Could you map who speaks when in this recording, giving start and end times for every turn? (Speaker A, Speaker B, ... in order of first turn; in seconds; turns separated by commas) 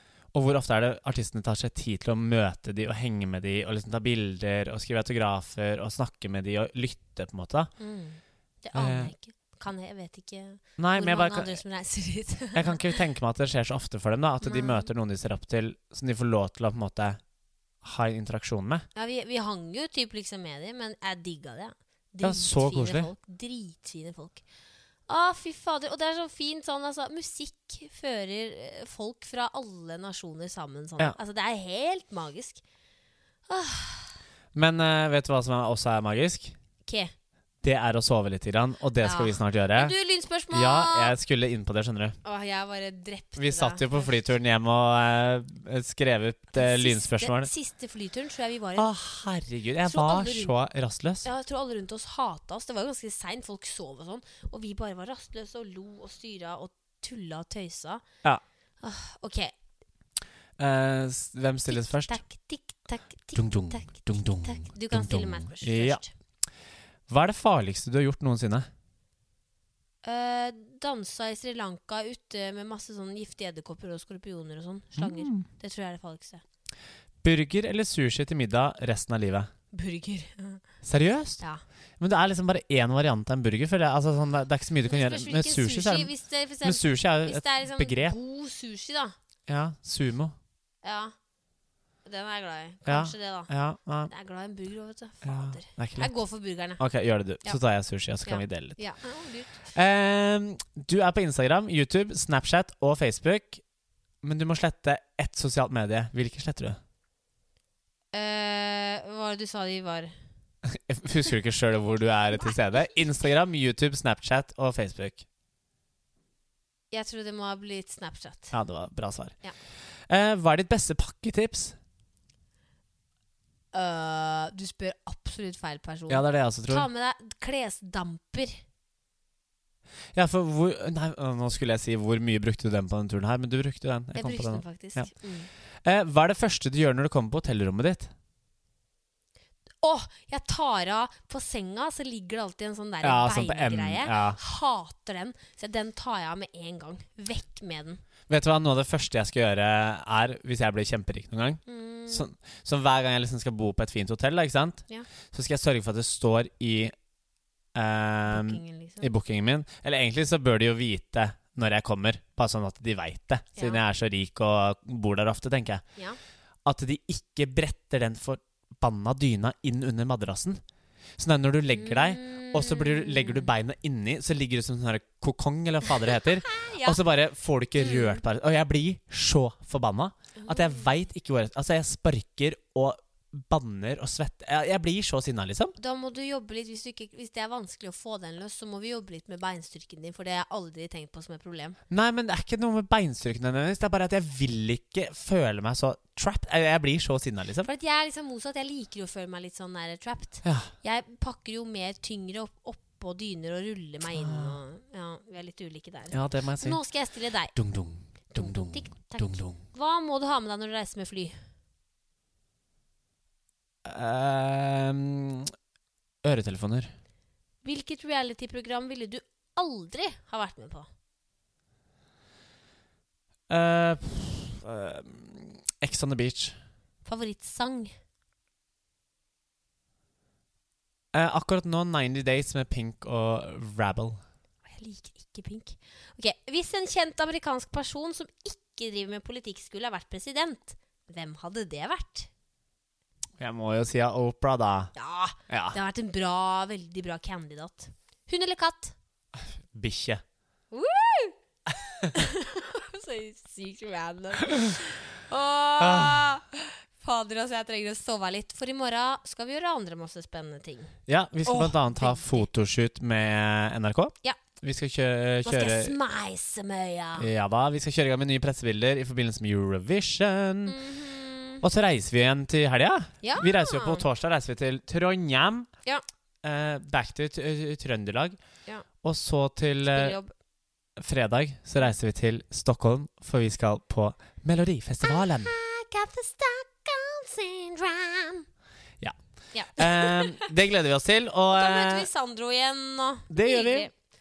Speaker A: 0.3-7.7, Speaker B: 7.8-12.8, Speaker A: 8.7-9.1, Speaker A: 10.8-11.6, Speaker A: 12.5-17.2, Speaker B: 14.4-14.9, Speaker A: 17.8-18.9, Speaker B: 18.9-24.4, Speaker A: 22.2-23.1, Speaker B: 25.1-32.6, Speaker B: 33.5-34.1, Speaker A: 34.5-36.5, Speaker B: 36.8-37.1, Speaker A: 37.6-39.9, Speaker B: 39.0-41.1, Speaker A: 40.5-42.1, Speaker B: 42.2-44.1, Speaker A: 43.4-47.5, Speaker B: 46.5-48.9, Speaker A: 48.8-51.2, Speaker B: 49.8-50.5, Speaker B: 51.2-58.0, Speaker B: 58.8-59.5, Speaker A: 60.6-62.2, Speaker B: 61.7-66.1, Speaker A: 63.3-66.0, Speaker A: 67.1-68.7, Speaker B: 70.0-76.4, Speaker A: 75.0-75.5, Speaker A: 77.2-79.5, Speaker B: 79.7-80.6, Speaker A: 80.8-81.4, Speaker A: 82.0-86.1, Speaker B: 84.9-89.1, Speaker A: 86.6-88.2, Speaker A: 89.5-90.3, Speaker B: 90.8-91.1, Speaker B: 92.0-93.5, Speaker A: 92.8-94.1, Speaker B: 94.1-96.8, Speaker A: 95.2-96.1, Speaker A: 96.8-98.8, Speaker B: 98.2-99.7, Speaker A: 99.7-103.6, Speaker A: 104.2-106.8, Speaker B: 108.1-110.1, Speaker A: 110.7-115.2, Speaker B: 116.9-118.5, Speaker A: 118.5-119.3, Speaker A: 120.1-121.8, Speaker B: 123.7-128.6, Speaker A: 126.1-126.9, Speaker A: 130.1-135.1, Speaker B: 134.1-135.5, Speaker A: 135.8-138.1, Speaker B: 139.8-148.0, Speaker A: 143.0-144.4, Speaker A: 148.3-156.9, Speaker B: 151.7-152.3, Speaker A: 157.7-165.8, Speaker B: 158.3-159.1, Speaker B: 163.6-163.8, Speaker A: 166.6-170.6, Speaker A: 171.2-185.7, Speaker B: 171.7-173.5, Speaker B: 176.1-177.0, Speaker B: 177.8-178.2, Speaker B: 180.3-180.9, Speaker B: 185.8-191.8, Speaker A: 191.9-197.7, Speaker B: 197.6-207.5, Speaker A: 200.4-200.7, Speaker A: 204.1-204.6, Speaker A: 206.1-206.8, Speaker A: 207.5-209.6, Speaker B: 208.3-211.3, Speaker A: 213.8-215.5, Speaker A: 216.2-216.9, Speaker B: 217.6-220.9, Speaker A: 223.5-226.6, Speaker B: 227.0-227.9, Speaker A: 231.1-234.2, Speaker B: 234.7-242.3, Speaker A: 243.4-244.9, Speaker B: 244.9-248.9, Speaker A: 245.5-245.8, Speaker A: 249.7-250.2, Speaker B: 250.7-251.3, Speaker B: 252.0-260.9, Speaker A: 255.8-256.3, Speaker A: 261.1-265.9, Speaker B: 261.4-262.5, Speaker B: 265.4-267.3, Speaker A: 267.2-270.8, Speaker B: 270.7-271.6, Speaker A: 271.6-275.7, Speaker B: 273.2-274.0, Speaker A: 276.4-278.4, Speaker A: 279.0-280.2, Speaker B: 279.8-280.3, Speaker A: 281.0-285.5, Speaker B: 285.0-288.4, Speaker B: 289.5-290.5, Speaker A: 289.8-292.1, Speaker B: 291.5-293.9, Speaker A: 293.3-293.9